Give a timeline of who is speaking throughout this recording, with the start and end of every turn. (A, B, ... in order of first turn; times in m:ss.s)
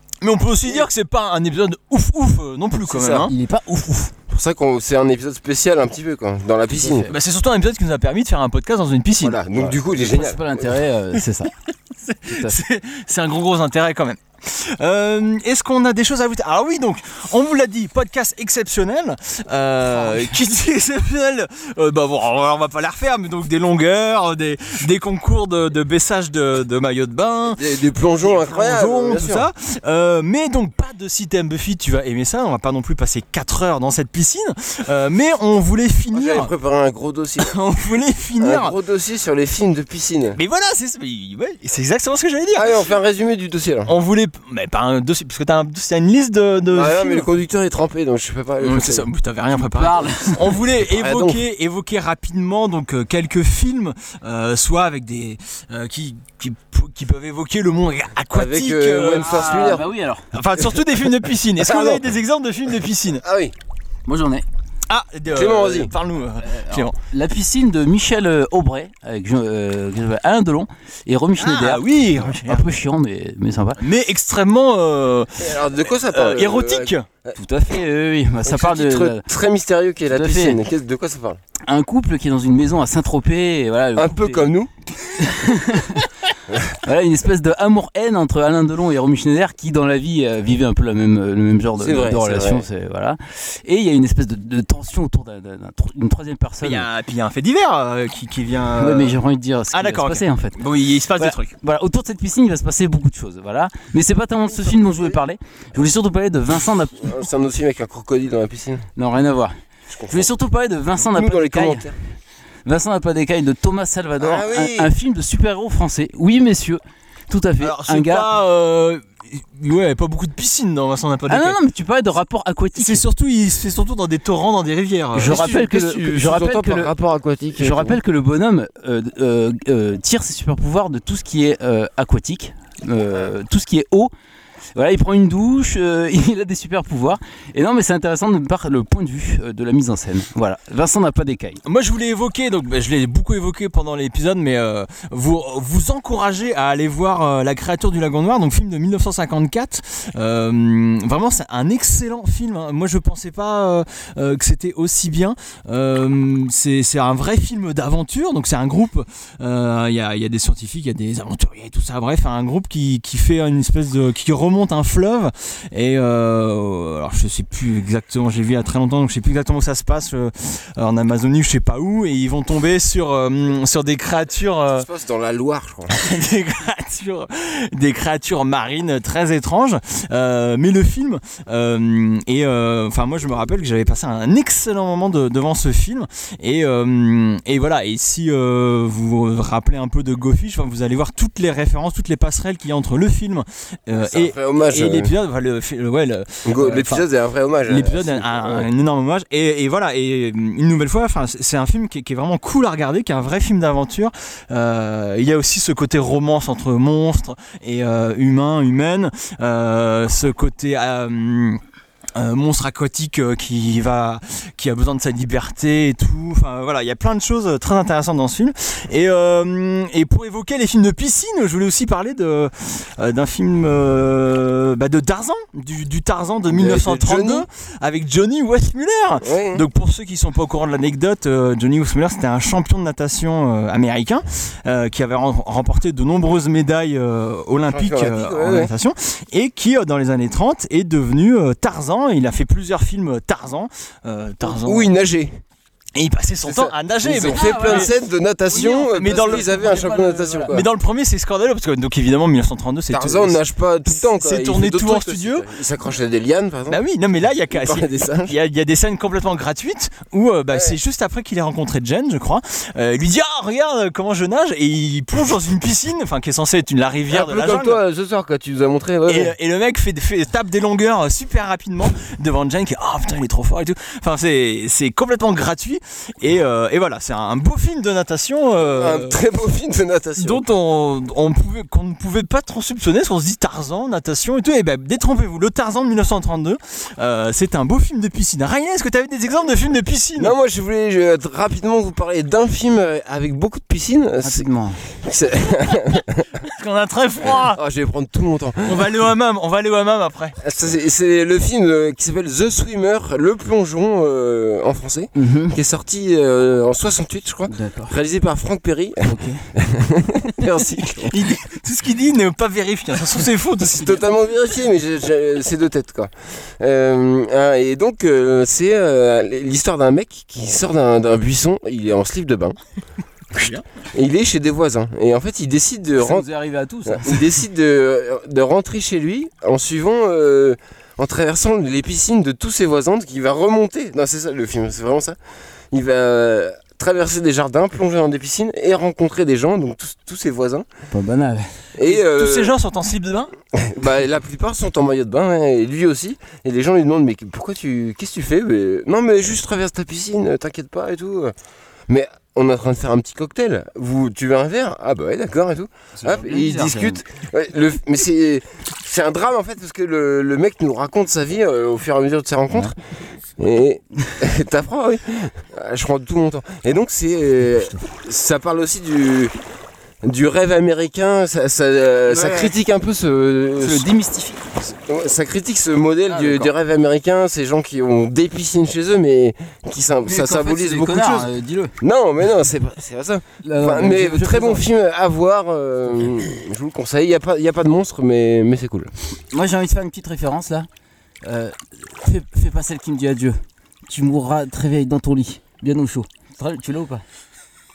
0:00.2-0:03.3 A
0:02.8-0:03.3 B
0:03.3-0:04.1 C
0:04.3-0:07.1 B
0:06.7-0:07.1 C
0:07.1-0:09.4 A
0:09.2-0:10.8 B
0:09.9-0:11.5 C
0:12.0-0:27.6 A
0:12.3-0:12.6 C
0:20.0-0:20.3 C
0:27.5-0:29.5 B
0:28.2-0:36.5 A
0:36.1-0:37.5 B
0:37.4-0:38.7 A
0:38.4-0:40.4 B
0:40.4-0:42.7 A
0:42.6-0:43.9 B
0:43.9-0:47.3 A
0:46.7-0:49.1 B
0:48.6-0:59.7 A
0:49.7-0:50.5 C
0:50.8-0:51.4 B
0:58.3-0:59.9 B
0:59.2-1:00.2 C
1:00.3-1:03.2 A
1:01.6-1:02.1 B
1:03.2-1:03.5 B
1:04.1-1:04.4 C
1:04.9-1:06.9 A
1:05.3-1:05.9 B
1:06.4-1:13.8 C
1:11.4-1:12.6 A
1:13.8-1:17.0 A
1:15.4-1:17.4 B
1:17.4-1:19.2 C
1:18.4-1:21.4 B
1:20.1-1:20.6 C
1:21.7-1:24.5 C
1:24.0-1:24.7 B
1:25.2-1:26.1 C
1:26.8-1:36.9 C
1:31.8-1:32.6 B
1:36.6-1:39.2 A
1:38.8-1:40.6 C
1:39.7-1:41.5 A
1:41.2-1:47.1 C
1:44.6-1:45.2 B
1:47.0-1:48.9 B
1:49.0-1:49.5 C
1:49.9-1:50.3 B
1:50.1-1:51.9 C
1:51.0-1:51.9 B
1:52.6-1:58.3 C
1:54.2-1:54.9 B
1:57.6-2:01.6 A
2:01.3-2:03.0 C
2:02.7-2:05.4 A
2:05.1-2:06.9 C
2:05.2-2:08.0 B
2:07.6-2:14.1 C
2:14.7-2:21.6 C
2:21.6-2:54.9 A
2:54.7-2:55.9 B
2:56.0-3:17.0 A
3:14.0-3:15.1 B
3:16.4-3:18.7 B
3:17.6-3:31.6 A
3:32.2-4:04.9 A
3:46.5-3:47.4 B
3:49.2-3:49.6 B
3:57.7-3:58.7 B
4:04.4-4:05.4 B
4:05.9-4:07.9 A
4:06.4-4:10.6 B
4:07.2-4:07.9 C
4:08.5-4:09.6 A
4:08.5-4:10.5 C
4:10.5-4:15.4 A
4:12.9-4:16.8 B
4:16.7-4:27.8 A
4:17.5-4:18.3 B
4:27.1-4:29.3 B
4:29.1-4:39.2 A
4:38.6-4:40.4 B
4:40.2-4:50.3 A
4:50.2-4:54.5 B
4:54.2-4:54.8 C
4:55.0-4:56.3 B
4:56.4-4:57.6 A
4:57.2-4:58.8 B
4:58.6-5:00.4 A
5:00.4-5:11.2 B
5:05.2-5:05.6 C
5:07.5-5:07.9 C
5:09.0-5:09.4 C
5:11.1-5:14.0 A
5:13.6-5:22.6 B
5:23.3-5:23.6 A
5:23.3-5:26.2 B
5:26.0-5:27.3 C
5:26.9-5:35.2 B
5:35.7-5:40.6 B
5:40.9-5:41.5 C
5:41.8-5:42.5 B
5:41.8-5:43.3 A
5:43.5-5:51.3 B
5:51.9-6:02.8 B
5:56.0-5:57.0 C
6:03.4-6:09.3 B
6:10.0-6:13.9 B
6:12.1-6:12.5 C
6:13.6-6:14.6 C
6:14.7-6:28.9 B
6:16.1-6:16.5 C
6:20.0-6:21.7 C
6:23.4-6:24.6 C
6:29.3-6:30.7 C
6:31.2-6:37.0 C